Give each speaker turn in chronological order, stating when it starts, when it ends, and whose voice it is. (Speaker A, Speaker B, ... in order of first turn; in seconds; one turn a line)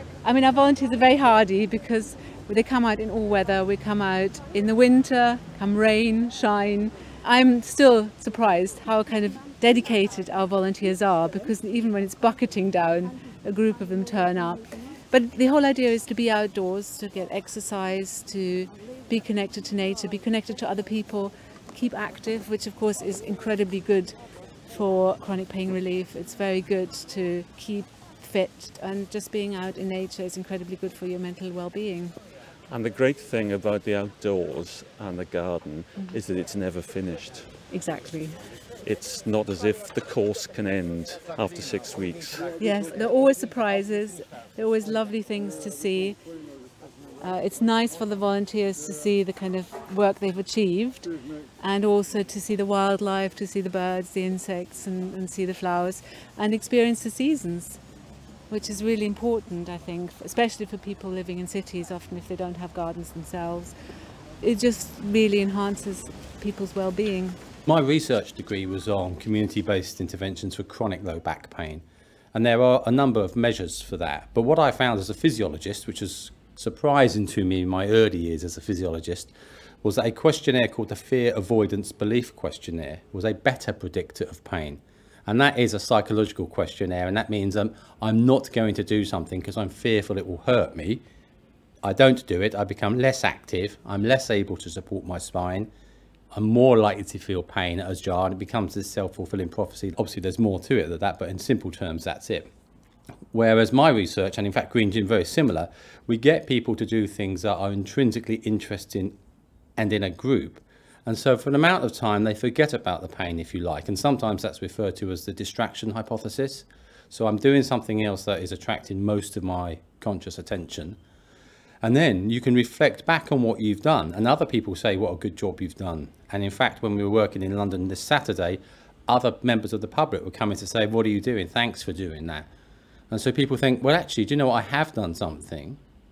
Speaker A: 0.2-24.1
Speaker A: 24.7-32.1
Speaker B: 32.7-37.5
Speaker A: 37.7-38.4
Speaker B: 38.8-42.5
Speaker A: 42.6-46.2
Speaker A: 47.2-57.8
Speaker A: 58.5-63.7
Speaker A: 64.4-67.4
Speaker C: 67.7-91.0
Speaker C: 91.8-95.7
Speaker C: 96.3-102.5
Speaker C: 103.3-109.2
Speaker C: 109.8-121.0
Speaker C: 121.8-132.5
Speaker C: 133.1-135.8